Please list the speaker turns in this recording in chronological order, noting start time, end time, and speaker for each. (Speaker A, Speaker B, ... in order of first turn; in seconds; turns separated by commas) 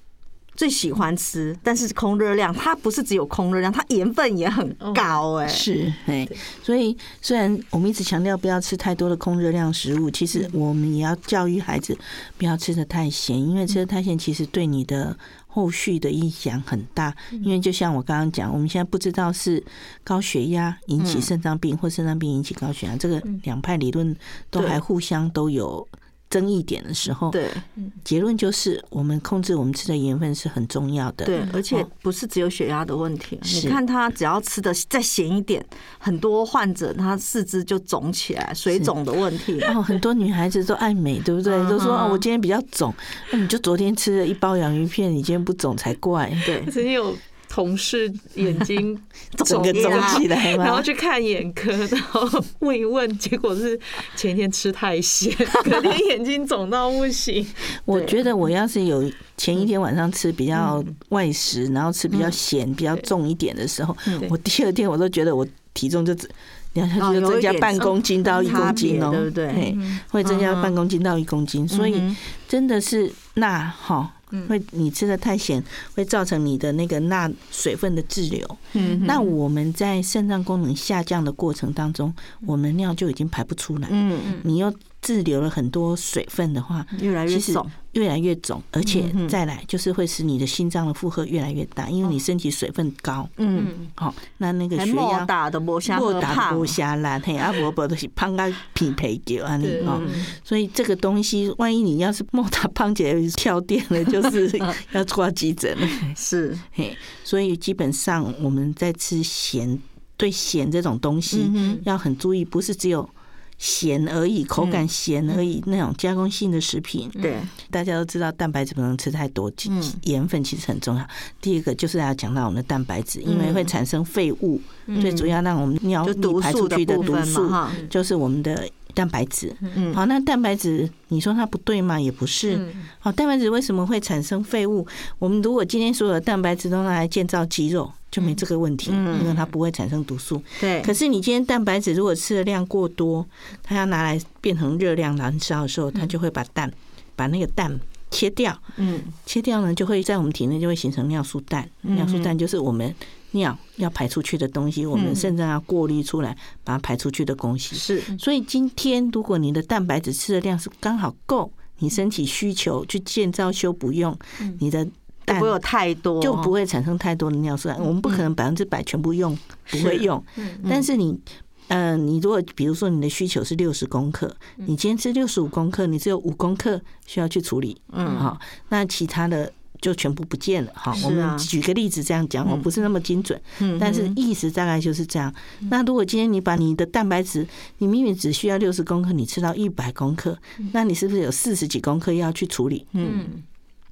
Speaker A: 0.6-5.6, Speaker B: 4.8-5.2, Speaker C: 5.5-27.4, Speaker A: 21.0-21.3, Speaker A: 27.3-27.6, Speaker C: 28.0-31.8, Speaker A: 31.2-39.7, Speaker C: 33.4-33.8, Speaker C: 39.6-46.6, Speaker A: 41.5-42.2, Speaker A: 46.4-46.7, Speaker B: 46.6-57.8, Speaker A: 49.4-50.2, Speaker C: 49.5-50.9, Speaker C: 57.9-95.3, Speaker A: 67.0-69.7, Speaker B: 67.8-68.9, Speaker B: 69.5-70.0, Speaker A: 70.2-70.7, Speaker A: 71.7-72.2, Speaker A: 78.7-79.2, Speaker B: 78.8-79.3, Speaker A: 83.9-84.4, Speaker A: 86.9-87.7, Speaker A: 88.9-89.3, Speaker A: 93.4-93.7, Speaker B: 93.5-93.9, Speaker A: 94.7-96.7, Speaker C: 95.8-106.2, Speaker B: 99.6-100.3, Speaker A: 99.8-100.2, Speaker A: 106.0-106.6, Speaker C: 106.7-148.7, Speaker A: 111.3-111.8, Speaker A: 114.6-114.8, Speaker A: 117.2-117.5, Speaker A: 119.7-120.0, Speaker A: 123.2-123.7, Speaker B: 124.9-125.2, Speaker A: 124.9-125.3, Speaker A: 126.0-127.8, Speaker A: 129.7-130.0, Speaker B: 132.5-132.8, Speaker A: 138.8-139.3, Speaker A: 140.6-140.9, Speaker A: 148.8-149.1, Speaker C: 149.2-165.5, Speaker A: 151.8-152.3, Speaker A: 154.9-155.2, Speaker A: 157.7-158.1, Speaker A: 165.3-166.5, Speaker C: 166.2-192.9, Speaker A: 169.7-170.0, Speaker B: 170.4-170.6, Speaker A: 177.9-178.2, Speaker B: 178.0-178.3, Speaker A: 180.9-181.5, Speaker A: 183.6-184.2, Speaker A: 192.9-193.3, Speaker B: 193.0-193.4